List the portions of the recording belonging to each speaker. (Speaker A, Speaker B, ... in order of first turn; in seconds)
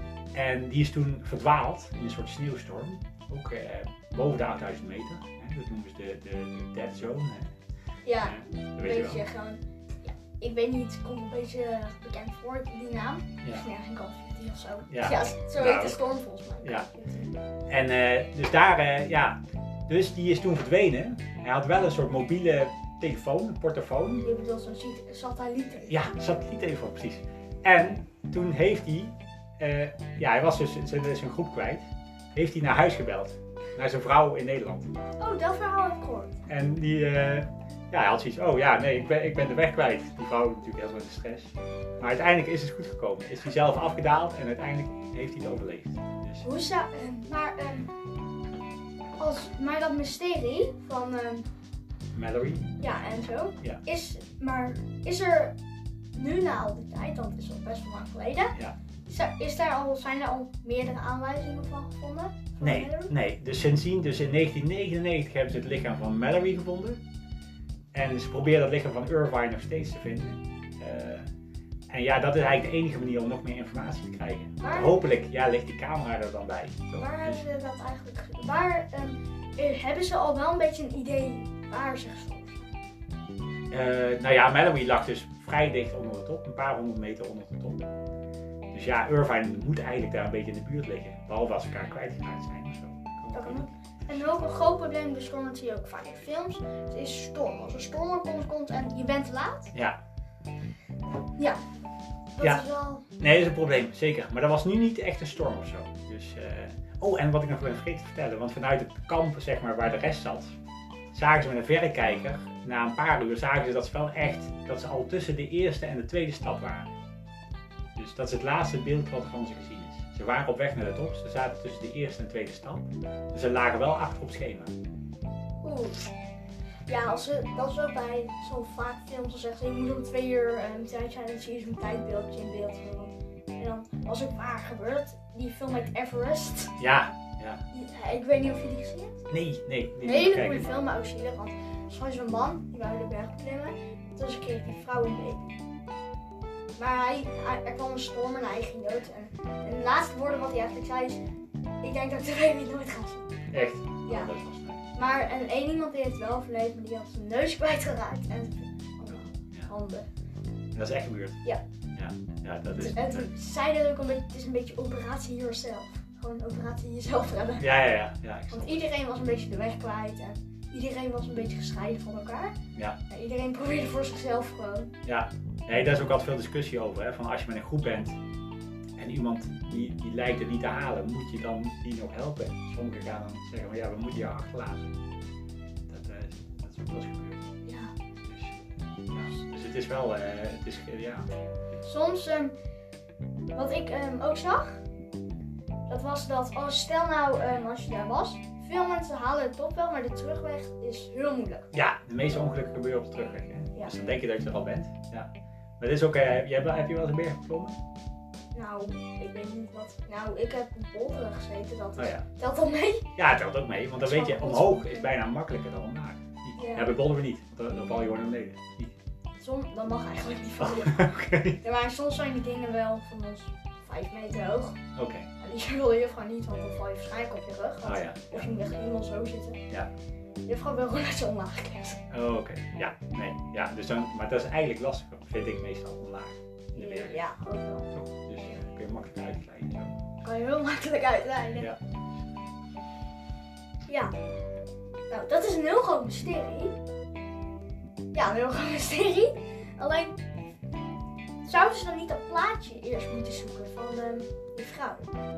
Speaker A: 0.3-7.5, 8.2-9.2, 14.9-16.0, 17.7-24.3, 25.9-34.9, 36.5-46.5, 52.1-52.7, 62.6-67.0, 67.9-71.3, 71.9-77.4, 83.7-87.8, 88.7-94.2, 103.2-110.5, 111.1-116.9, 118.0-124.7, 136.8-137.6, 139.3-140.7, 153.5-154.8, 159.1-159.7, 160.7-161.4, 161.9-163.3, 167.6-168.9, 175.0-178.2, 179.0-184.9, 185.9-187.5, 188.2-191.3, 201.7-205.3, 205.8-207.8, 211.9-212.2, 213.2-218.9, 220.6-221.6, 224.9-225.3, 227.8-228.6, 232.1-237.2, 237.9-240.0
Speaker B: 8.0-17.3, 24.2-26.0, 35.2-36.3, 46.4-47.9, 49.2-51.5, 52.8-55.5, 56.1-58.5, 59.1-63.1, 74.6-75.0, 76.9-82.7, 93.3-99.7, 102.3-103.0, 125.6-126.1, 126.8-136.7, 137.7-139.2, 140.0-145.6, 146.8-151.2, 151.8-153.3, 154.1-154.3, 154.9-160.1, 162.7-167.8, 168.5-172.5, 173.1-174.9, 187.6-187.9, 191.8-192.5, 193.5-194.8, 195.9-201.7, 208.5-213.1, 214.0-215.1, 216.6-216.9, 219.4-224.8, 225.4-229.6, 230.4-232.0, 236.7-237.8, 240.2-241.7, 243.9-244.1, 245.1-246.8, 248.1-250.2, 251.4-255.1